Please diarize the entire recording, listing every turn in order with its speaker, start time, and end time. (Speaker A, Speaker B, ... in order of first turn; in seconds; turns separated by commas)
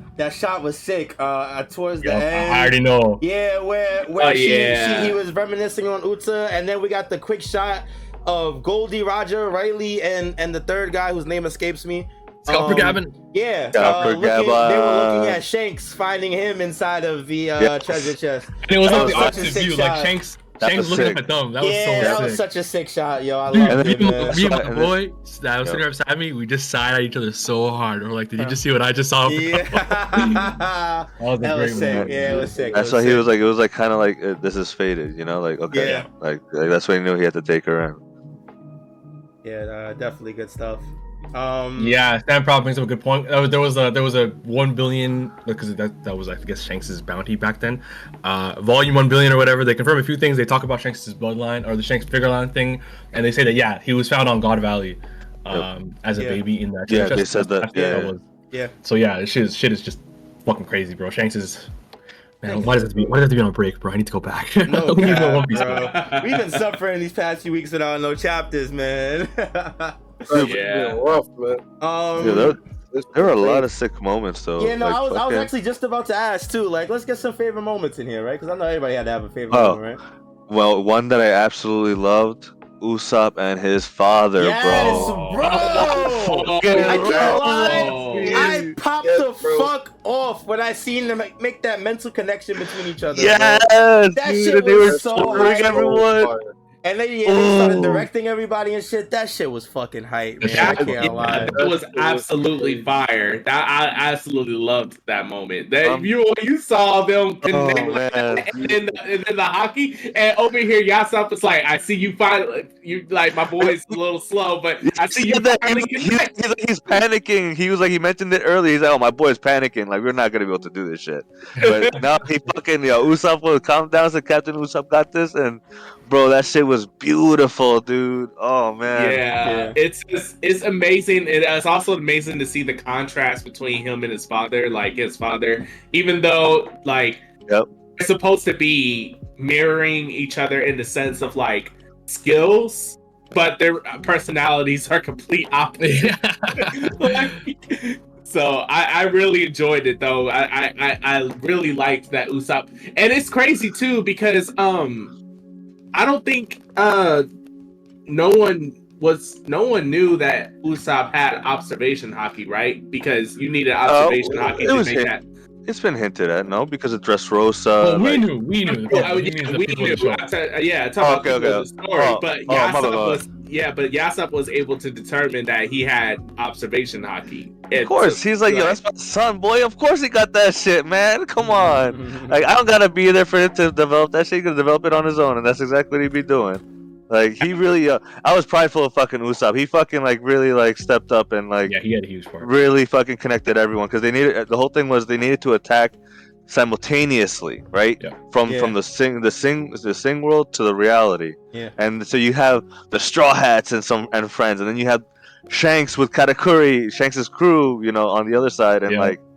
Speaker A: 0.2-20.1, Speaker B: 2.0-3.2, Speaker C: 4.2-5.2, Speaker B: 12.5-13.2, Speaker D: 13.7-15.4, Speaker D: 17.6-18.0, Speaker B: 18.6-22.4, Speaker D: 18.8-19.5, Speaker D: 20.6-21.2, Speaker A: 21.6-24.4, Speaker D: 22.0-22.2, Speaker B: 23.5-30.5, Speaker D: 23.7-25.0, Speaker A: 29.2-33.3, Speaker B: 31.2-32.6, Speaker D: 31.8-38.0, Speaker A: 35.7-36.1, Speaker A: 39.4-42.0, Speaker B: 41.8-58.2, Speaker A: 56.1-56.4, Speaker D: 56.9-58.1, Speaker A: 57.7-58.7, Speaker B: 58.8-61.7, Speaker B: 62.4-66.0, Speaker A: 62.5-63.2, Speaker A: 64.7-70.3, Speaker C: 65.0-66.7, Speaker E: 70.3-71.6, Speaker C: 70.3-71.0, Speaker A: 71.8-72.6, Speaker D: 72.2-72.6, Speaker E: 72.2-73.6, Speaker D: 73.1-75.5, Speaker A: 74.6-80.0, Speaker D: 79.5-79.8, Speaker D: 80.5-88.4, Speaker A: 84.4-96.0, Speaker C: 84.7-88.5, Speaker B: 85.4-85.8, Speaker E: 86.7-87.5, Speaker B: 87.0-88.7, Speaker E: 88.1-89.7, Speaker D: 93.1-96.3, Speaker E: 94.8-96.5, Speaker A: 96.8-101.5, Speaker D: 97.2-98.1, Speaker B: 100.4-101.6, Speaker C: 100.5-116.3, Speaker E: 101.4-102.9, Speaker D: 105.8-106.1, Speaker D: 107.4-108.5, Speaker D: 113.6-114.0, Speaker D: 114.8-129.2, Speaker B: 121.6-122.0, Speaker C: 121.6-122.0, Speaker C: 128.9-137.2, Speaker A: 129.4-129.8, Speaker C: 138.0-155.1, Speaker B: 145.8-147.4, Speaker C: 155.9-157.3, Speaker C: 158.1-165.2, Speaker D: 163.8-165.1, Speaker D: 165.7-168.3, Speaker B: 167.8-170.3, Speaker C: 168.7-178.8, Speaker D: 168.8-169.1, Speaker D: 171.0-173.2, Speaker D: 177.7-191.8, Speaker A: 181.5-182.4, Speaker B: 191.7-192.5, Speaker D: 192.4-195.9, Speaker D: 196.5-209.2, Speaker A: 198.4-198.7, Speaker B: 208.9-209.1